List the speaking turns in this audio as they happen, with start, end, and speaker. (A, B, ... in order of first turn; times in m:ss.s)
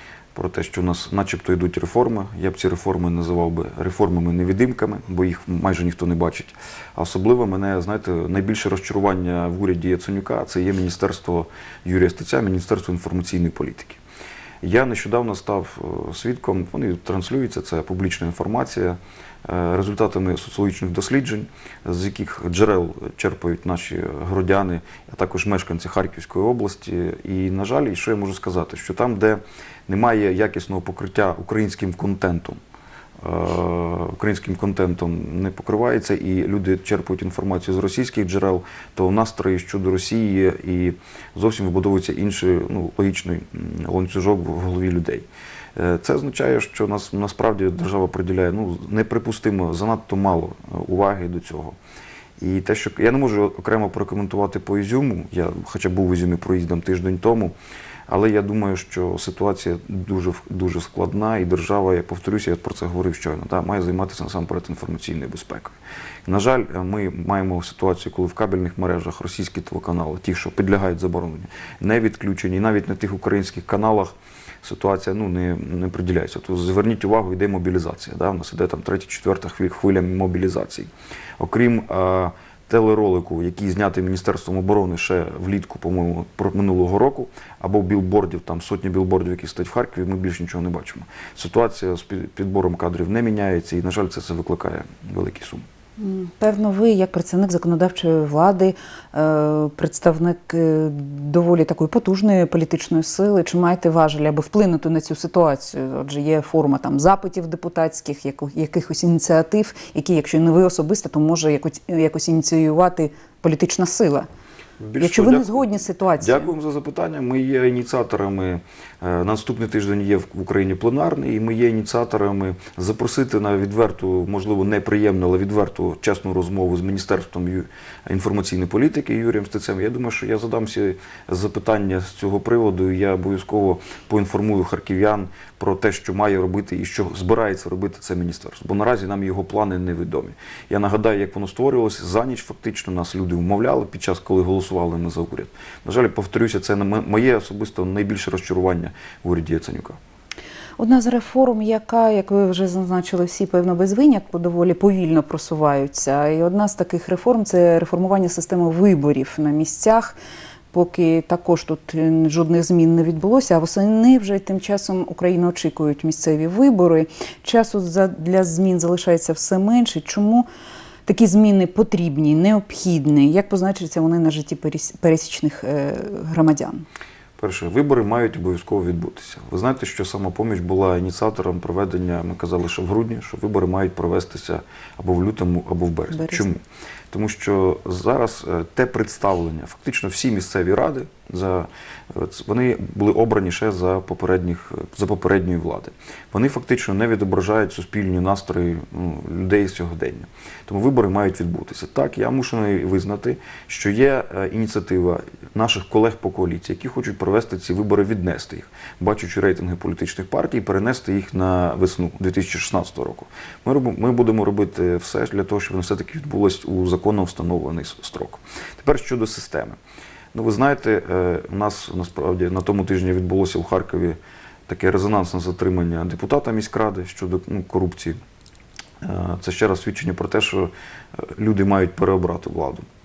0:00.3-0:14.0 A
0:14.6-0:32.6 A
0:33.2-0:51.8 A
0:52.4-0:57.5 A
0:58.1-1:05.7 A
1:06.2-1:35.6 A
1:36.0-1:54.3 B
1:54.8-1:55.7 A
1:55.0-1:56.5 B
1:56.2-2:30.0 A
2:30.8-2:40.2 B
2:40.7-2:50.5 B
2:51.0-2:56.8 B
2:57.4-3:39.8 A
3:06.1-3:06.4 B
3:40.3-3:48.2 A
3:49.0-3:52.8 A